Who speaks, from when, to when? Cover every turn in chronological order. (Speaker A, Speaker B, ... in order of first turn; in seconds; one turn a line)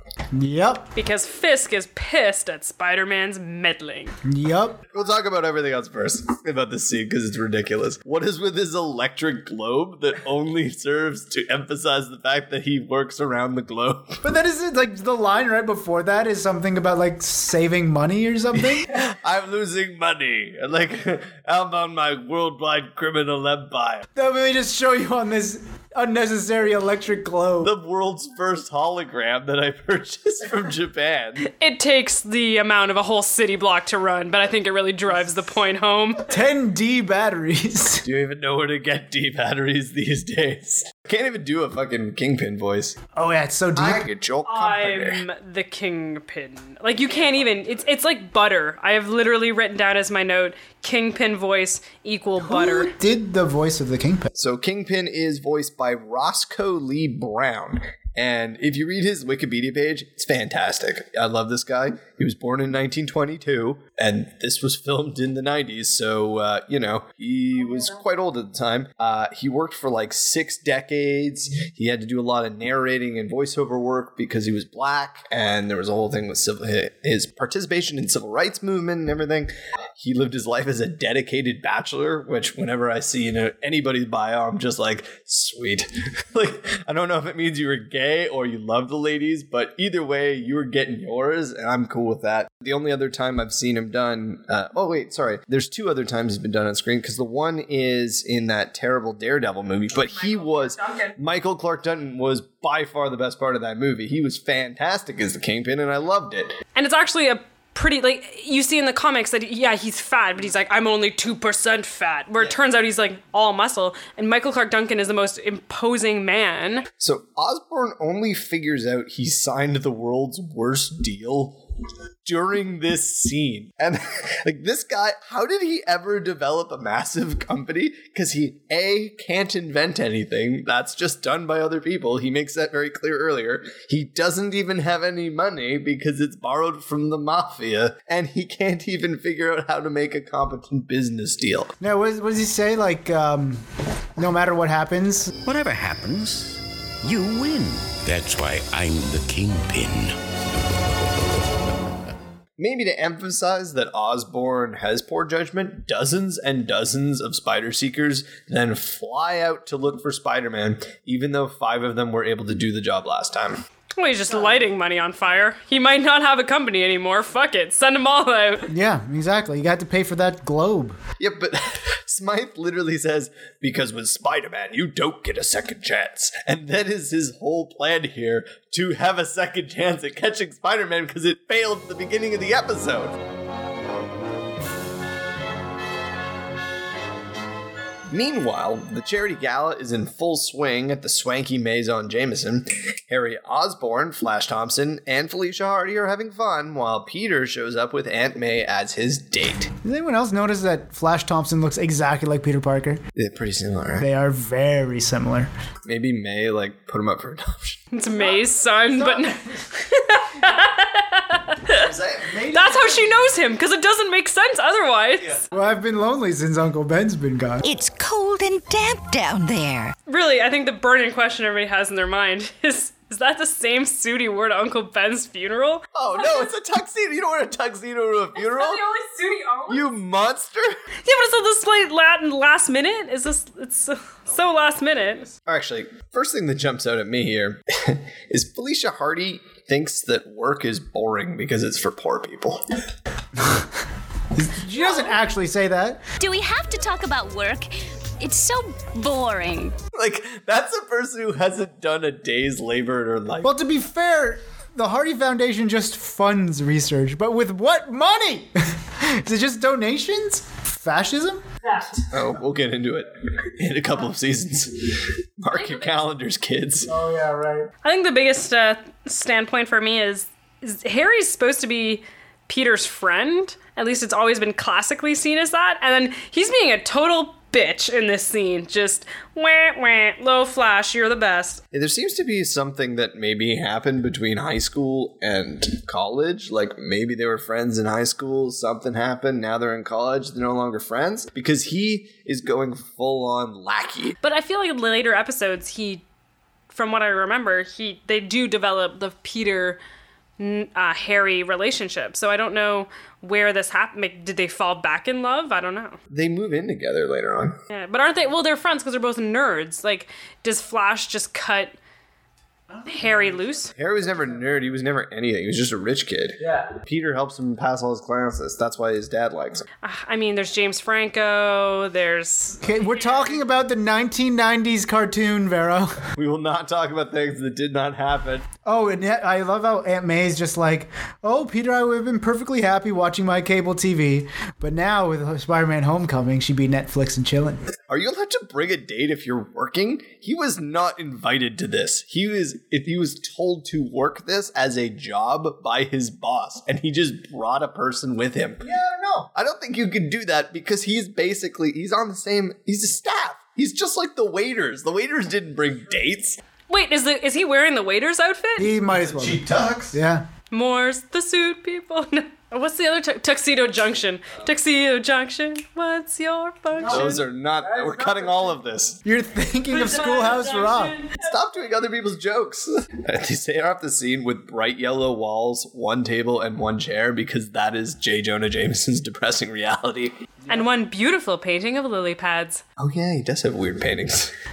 Speaker A: 0.3-0.9
Speaker B: 0.9-4.1
Speaker A: 4.2-4.8
Speaker C: 4.9-14.2
Speaker A: 14.2-18.9
Speaker C: 18.7-24.1
Speaker A: 24.1-27.7
Speaker C: 27.6-31.4
Speaker B: 31.4-36.3
Speaker A: 36.3-38.0
Speaker C: 38.0-43.0
Speaker A: 43.1-44.1
Speaker C: 43.8-45.2
Speaker B: 44.5-52.9
Speaker A: 52.4-54.3
Speaker C: 54.4-106.5
Speaker B: 100.0-101.2
Speaker B: 106.8-116.9
Speaker C: 117.0-121.6
Speaker C: 122.2-141.7
Speaker A: 141.8-143.6
Speaker A: 144.2-145.3
Speaker D: 145.4-147.9
Speaker E: 148.0-150.2
Speaker C: 152.6-163.6
Speaker B: 164.0-168.7
Speaker A: 168.7-171.0
Speaker C: 171.2-183.2
Speaker C: 188.1-199.7
Speaker A: 199.8-203.0
Speaker C: 203.2-204.1
Speaker A: 204.0-205.5
Speaker C: 205.9-207.9
Speaker B: 207.9-211.9
Speaker A: 208.9-209.4
Speaker C: 211.7-212.4
Speaker A: 212.2-213.4
Speaker B: 212.5-215.4
Speaker A: 215.5-217.6
Speaker F: 217.6-219.9
Speaker B: 220.1-226.5
Speaker C: 225.9-228.8
Speaker B: 228.4-229.8
Speaker C: 229.7-230.8
Speaker B: 231.1-235.3
Speaker C: 235.5-242.7
Speaker A: 243.4-243.7
Speaker A: 244.3-246.0
Speaker G: 246.2-247.6
Speaker F: 246.5-247.7
Speaker G: 248.2-249.7
Speaker F: 248.2-248.6
Speaker F: 249.1-249.6
Speaker C: 249.9-253.5
Speaker A: 253.4-261.4
Speaker C: 262.1-266.9
Speaker B: 265.5-265.9
Speaker A: 266.9-267.7
Speaker B: 267.8-281.6
Speaker C: 281.7-294.2
Speaker B: 294.2-296.0
Speaker B: 296.7-299.8
Speaker B: 300.4-306.0
Speaker C: 306.1-307.6
Speaker B: 307.7-311.8
Speaker A: 312.7-314.5
Speaker B: 312.9-313.7
Speaker C: 313.8-319.7
Speaker A: 316.4-316.7
Speaker B: 319.8-323.4
Speaker A: 322.6-326.1
Speaker C: 326.2-328.5
Speaker A: 328.6-337.6
Speaker C: 337.9-356.4
Speaker B: 356.7-358.7
Speaker A: 358.6-360.3
Speaker C: 359.0-359.9
Speaker B: 360.5-367.2
Speaker A: 366.8-368.5
Speaker C: 366.9-369.0
Speaker A: 369.1-371.0
Speaker B: 369.7-371.3
Speaker C: 371.2-380.1
Speaker B: 380.5-382.6
Speaker C: 382.8-384.3